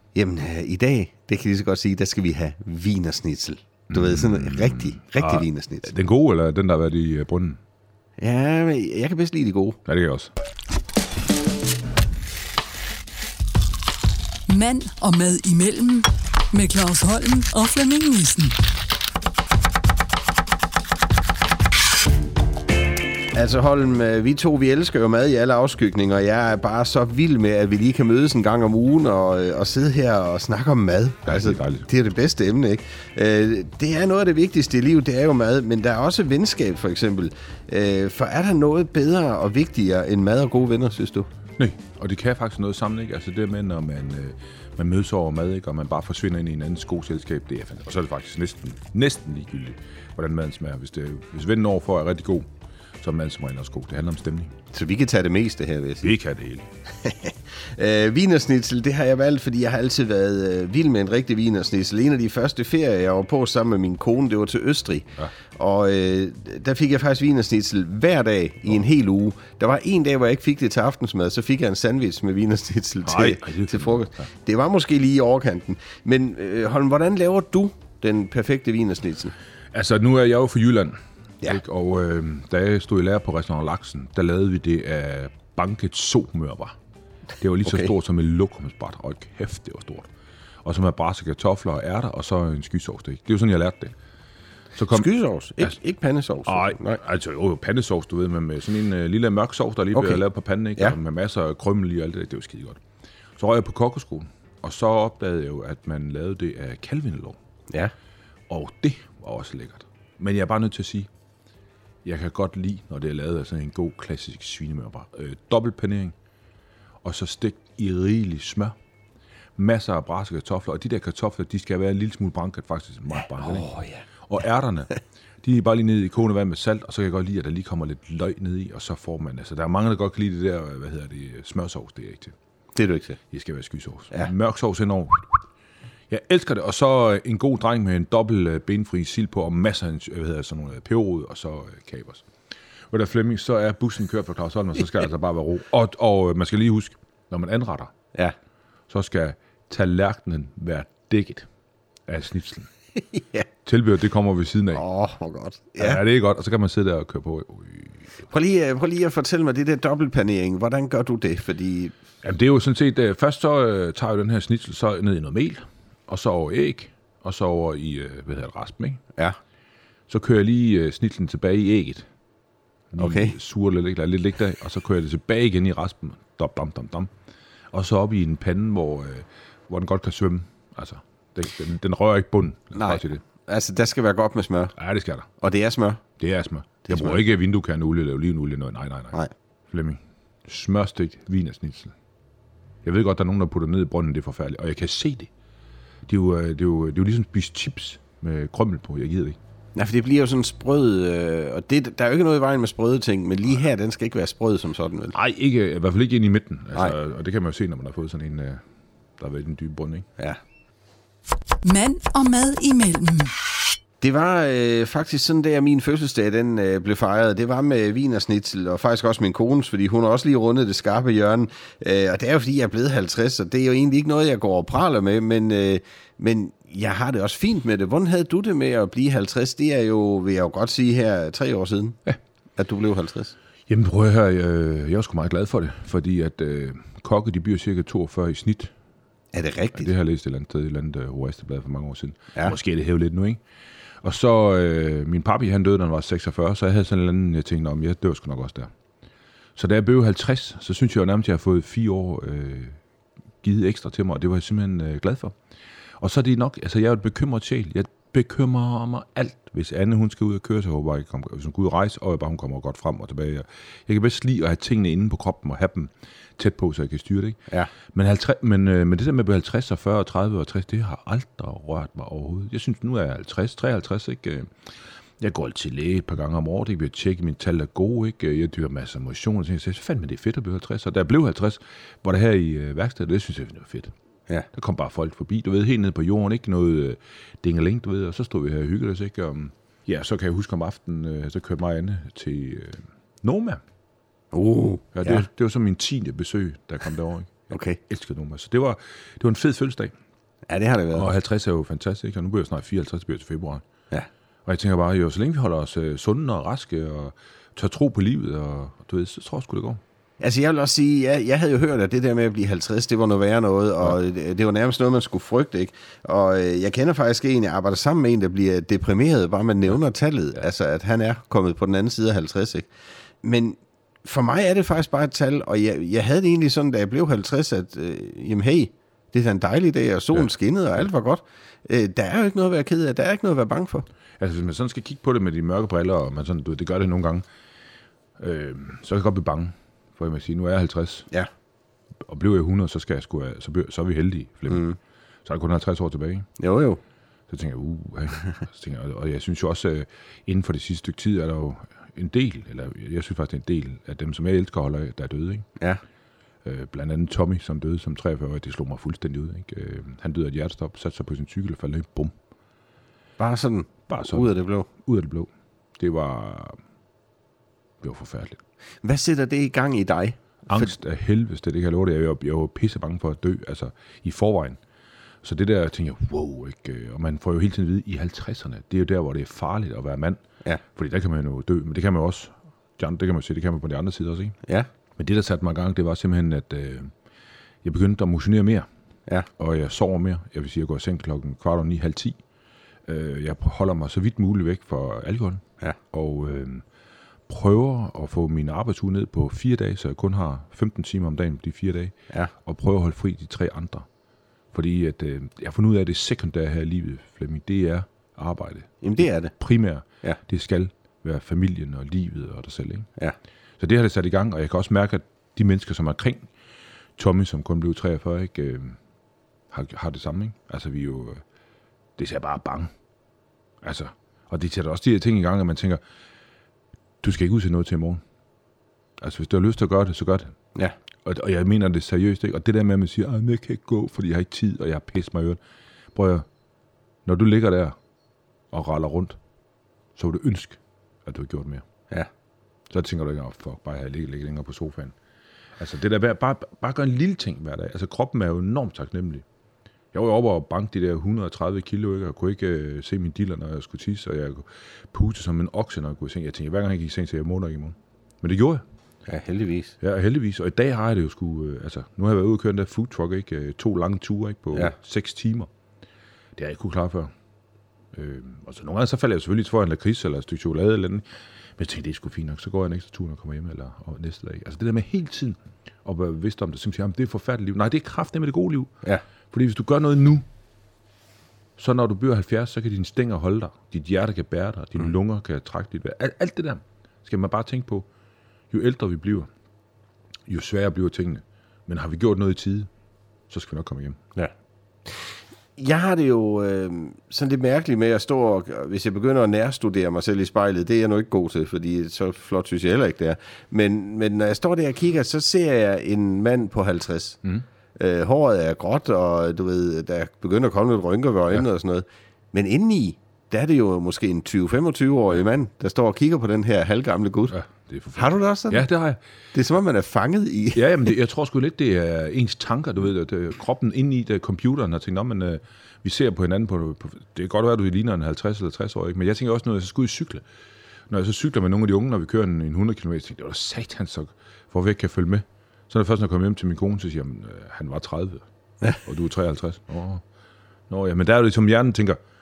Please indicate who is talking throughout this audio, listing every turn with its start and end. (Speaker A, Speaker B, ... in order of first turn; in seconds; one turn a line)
Speaker A: 0.1-5.9
Speaker B: 3.9-7.6
Speaker A: 8.2-9.8
Speaker B: 9.8-10.3
Speaker C: 14.5-18.6
Speaker A: 23.3-41.3
Speaker B: 31.2-31.9
Speaker B: 41.6-52.5
Speaker B: 53.0-54.5
Speaker A: 54.7-56.1
Speaker B: 56.0-56.7
Speaker A: 57.0-79.3
Speaker B: 73.0-74.2
Speaker B: 79.7-86.8
Speaker B: 87.4-90.1
Speaker A: 87.6-87.9
Speaker B: 90.6-93.9
Speaker B: 94.8-95.1
Speaker A: 94.9-97.0
Speaker B: 96.5-102.8
Speaker A: 99.9-100.2
Speaker B: 103.4-107.4
Speaker B: 108.5-111.1
Speaker B: 112.0-116.1
Speaker B: 117.0-118.7
Speaker B: 119.6-123.7
Speaker A: 123.3-124.0
Speaker B: 124.2-132.3
Speaker A: 132.7-133.2
Speaker B: 133.3-135.3
Speaker B: 136.1-142.2
Speaker B: 142.9-147.9
Speaker B: 148.9-151.5
Speaker B: 152.1-152.7
Speaker A: 153.1-153.4
Speaker B: 153.6-154.8
Speaker A: 154.7-156.0
Speaker B: 155.8-158.0
Speaker A: 158.3-161.9
Speaker B: 162.2-169.0
Speaker B: 170.1-172.1
Speaker B: 172.9-177.1
Speaker A: 173.0-173.3
Speaker B: 177.7-183.2
Speaker A: 182.7-184.7
Speaker B: 184.8-185.3
Speaker A: 185.4-186.0
Speaker B: 186.2-189.2
Speaker A: 186.9-187.2
Speaker B: 189.7-191.9
Speaker B: 192.8-195.3
Speaker B: 196.1-199.4
Speaker A: 199.7-205.1
Speaker B: 205.1-208.6
Speaker B: 209.2-210.1
Speaker C: 211.6-213.3
Speaker A: 214.0-232.0
Speaker A: 232.6-233.3
Speaker B: 233.7-238.7
Speaker A: 239.3-239.9
Speaker B: 239.7-243.4
Speaker B: 244.0-248.7
Speaker B: 249.6-252.8
Speaker B: 253.4-255.3
Speaker B: 256.0-274.5
Speaker B: 275.2-283.9
Speaker B: 284.5-293.6
Speaker A: 294.3-295.2
Speaker B: 294.9-299.9
Speaker A: 297.5-297.8
Speaker A: 300.5-301.1
Speaker B: 300.9-303.6
Speaker B: 304.4-309.8
Speaker A: 310.2-322.7
Speaker A: 323.2-333.8
Speaker B: 334.2-337.2
Speaker B: 338.2-341.1
Speaker B: 342.1-344.7
Speaker A: 344.5-344.8
Speaker B: 345.2-346.3
Speaker A: 346.4-346.8
Speaker B: 347.3-355.5
Speaker B: 356.4-362.1
Speaker A: 363.2-364.7
Speaker B: 363.9-366.6
Speaker B: 367.8-368.4
Speaker A: 368.8-370.7
Speaker B: 370.5-374.6
Speaker B: 375.2-380.2
Speaker B: 380.7-384.4
Speaker B: 385.0-386.9
Speaker B: 387.6-388.7
Speaker B: 389.4-392.2
Speaker B: 392.9-396.6
Speaker B: 397.3-403.9
Speaker B: 404.5-412.9
Speaker A: 408.8-409.3
Speaker B: 413.6-416.3
Speaker B: 417.0-418.8
Speaker B: 419.5-421.2
Speaker B: 422.0-422.7
Speaker B: 423.6-425.8
Speaker B: 427.0-428.0
Speaker B: 429.0-430.4
Speaker B: 431.0-435.4
Speaker B: 435.9-436.2
Speaker B: 437.1-437.8
Speaker B: 438.5-439.2
Speaker B: 439.9-441.6
Speaker B: 442.7-444.9
Speaker B: 445.6-449.2
Speaker B: 449.9-458.6
Speaker A: 459.1-459.7
Speaker B: 459.8-465.5
Speaker B: 466.4-467.1
Speaker B: 467.9-471.1
Speaker B: 471.6-478.7
Speaker B: 479.3-480.2
Speaker B: 481.6-487.9
Speaker B: 488.5-489.3
Speaker B: 490.3-492.7
Speaker B: 493.3-494.0
Speaker A: 495.6-507.2
Speaker A: 507.8-517.4
Speaker B: 517.3-519.0
Speaker A: 518.0-518.6
Speaker A: 519.3-520.9
Speaker B: 520.5-530.2
Speaker B: 530.9-540.0
Speaker B: 540.7-542.0